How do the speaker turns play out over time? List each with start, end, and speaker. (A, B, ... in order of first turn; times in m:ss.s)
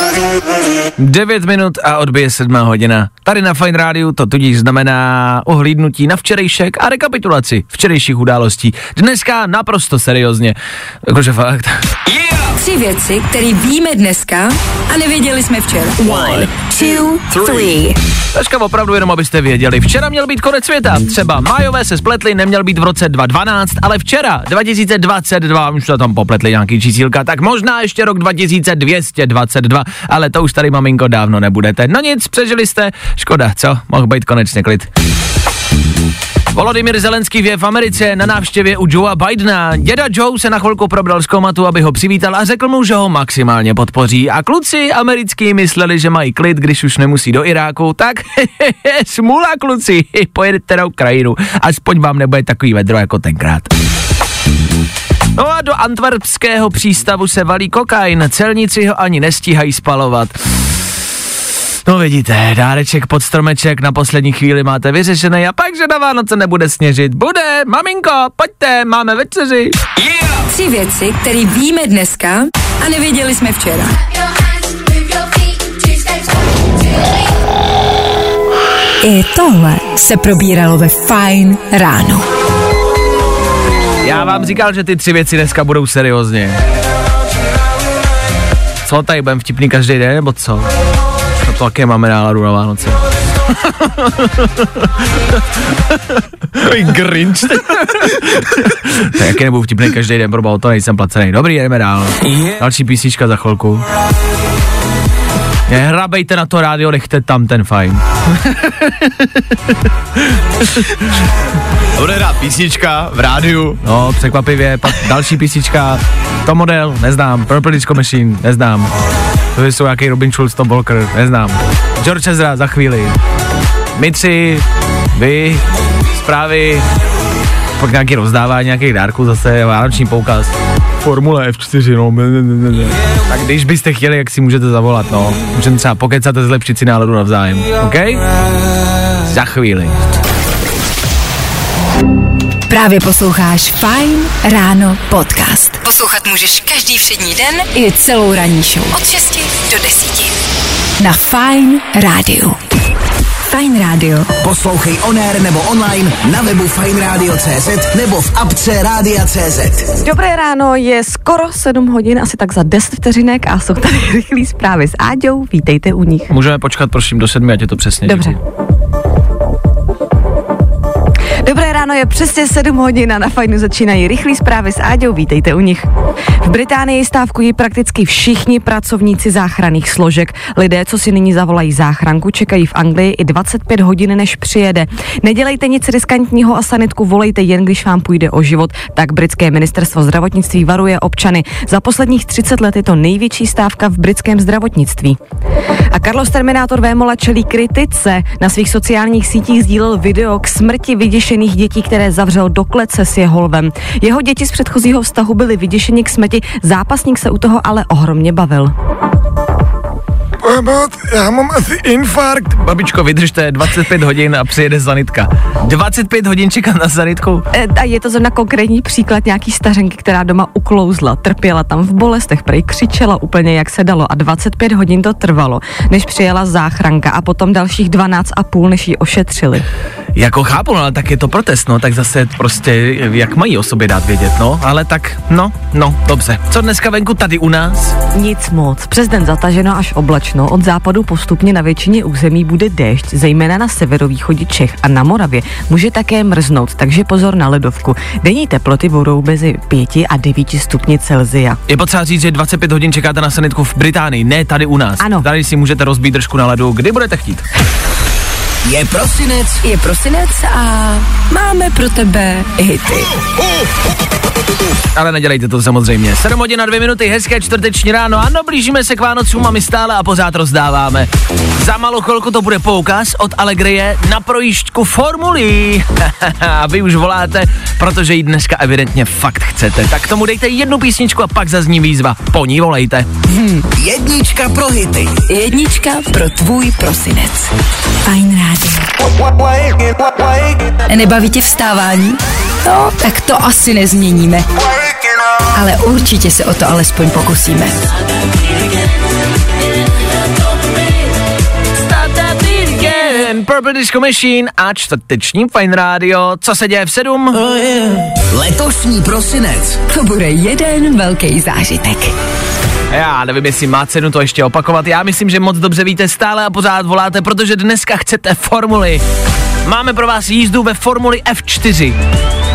0:01.0-0:11.9 A
0:12.5-0:18.0 B
0:18.3-0:34.9 A
0:36.5-0:53.7 A
0:55.4-1:00.4 A
1:01.9-1:09.8 A
1:10.5-1:14.0 B
1:19.0-1:22.2 B
1:24.0-1:26.6 A
1:28.8-1:30.7 A
1:31.4-1:33.0 A
1:33.5-1:34.9 A
1:35.9-1:36.2 A
1:36.6-1:38.4 C
1:37.8-1:43.8 A
1:45.7-1:51.0 A
1:52.0-1:53.8 C
1:53.8-1:58.9 A
1:59.6-2:03.2 A
2:04.0-2:06.8 A
2:07.8-2:18.2 A
2:19.2-2:19.9 A
2:22.7-2:30.4 B
2:31.0-2:32.6 B
2:33.4-2:34.3 B
2:34.4-2:39.9 D
2:40.0-2:46.3 E
2:46.3-2:48.4 A
2:48.0-2:48.4 E
2:51.4-2:55.9 E
2:56.4-3:15.2 E
3:15.9-3:28.7 E
3:30.4-3:32.5 F
3:32.4-3:37.4 A
3:37.5-3:49.7 E
3:50.2-3:58.0 A
3:58.2-4:11.6 E
4:11.7-4:17.4 A
4:15.0-4:15.3 E
4:18.6-4:19.6 D
4:19.6-4:23.1 B
4:25.0-4:43.1 A
4:43.3-4:43.6 B
4:43.8-4:45.2 D
4:45.3-4:47.5 B
4:48.0-4:48.9 B
4:50.9-4:54.5 B
4:55.5-4:57.9 B
5:01.8-5:07.4 A
5:07.5-5:09.8 D
5:09.9-5:12.1 B
5:12.9-5:19.0 A
5:19.6-5:22.0 A